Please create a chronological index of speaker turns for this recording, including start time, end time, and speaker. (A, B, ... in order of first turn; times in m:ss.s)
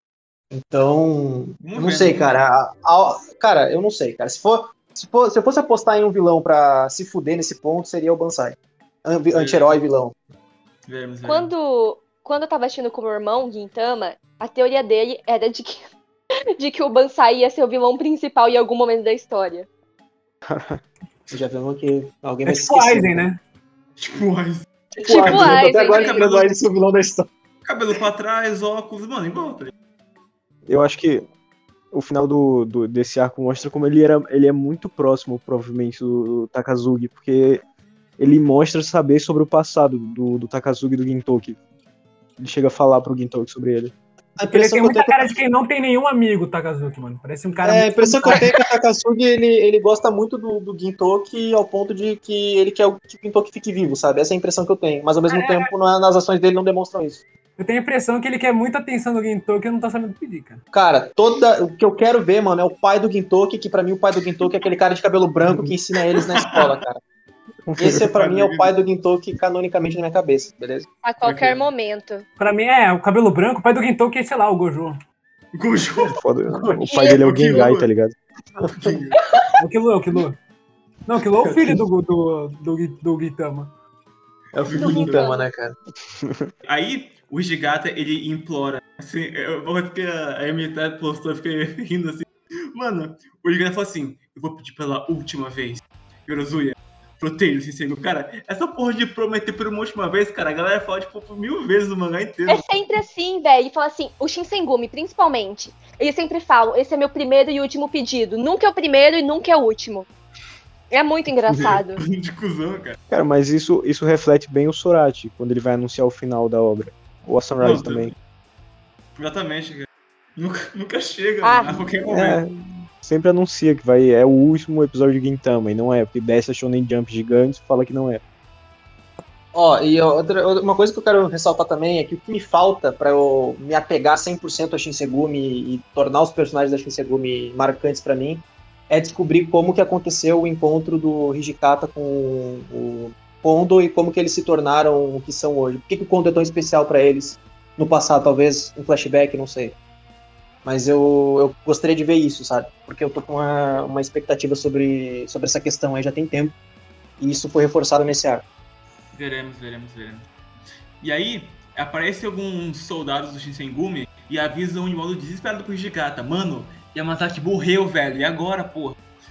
0:00.5-0:10.2 A
0:01.6-0:02.4 B
0:09.3-0:09.8 B
0:10.9-0:11.5 B
0:11.2-0:15.9 C
0:16.6-0:19.7 C
0:20.5-0:20.8 D
0:21.3-0:23.2 A
0:22.5-0:23.4 E
0:24.0-0:26.6 B
0:24.9-0:27.3 A
0:25.0-0:26.2 C
0:27.6-0:29.7 B
0:30.7-0:31.2 D
0:31.9-0:37.6 D
0:38.2-0:41.6 D
0:42.4-0:43.9 D
0:44.4-0:45.3 A
0:44.5-0:48.6 E
0:47.6-0:57.2 A
0:55.3-0:55.7 E
0:57.6-1:00.6 E
1:00.7-1:07.0 A
1:05.5-1:05.7 D
1:06.1-1:06.7 B
1:07.7-1:08.1 D
1:07.8-1:10.9 A
1:07.9-1:08.7 B
1:11.0-1:12.3 C
1:11.2-1:11.7 B
1:12.4-1:15.0 E
1:15.6-1:17.9 B
1:16.1-1:18.2 D
1:16.9-1:17.2 C
1:18.6-1:19.3 B
1:19.6-1:20.4 E
1:21.1-1:23.7 E
1:21.4-1:21.8 A
1:24.5-1:25.8 A
1:24.7-1:25.3 B
1:24.7-1:25.4 C
1:26.2-1:26.5 D
1:26.6-1:42.9 B
1:42.5-1:50.1 C
1:50.9-1:52.0 C
1:51.5-1:53.0 B
1:53.1-1:58.1 D
1:57.6-1:58.2 B
1:59.2-2:02.4 B
2:01.4-2:01.9 C
2:02.1-2:08.2 D
2:09.5-2:29.8 A
2:30.6-2:36.6 A
2:37.2-2:38.4 A
2:39.1-2:40.3 B
2:41.0-2:49.0 B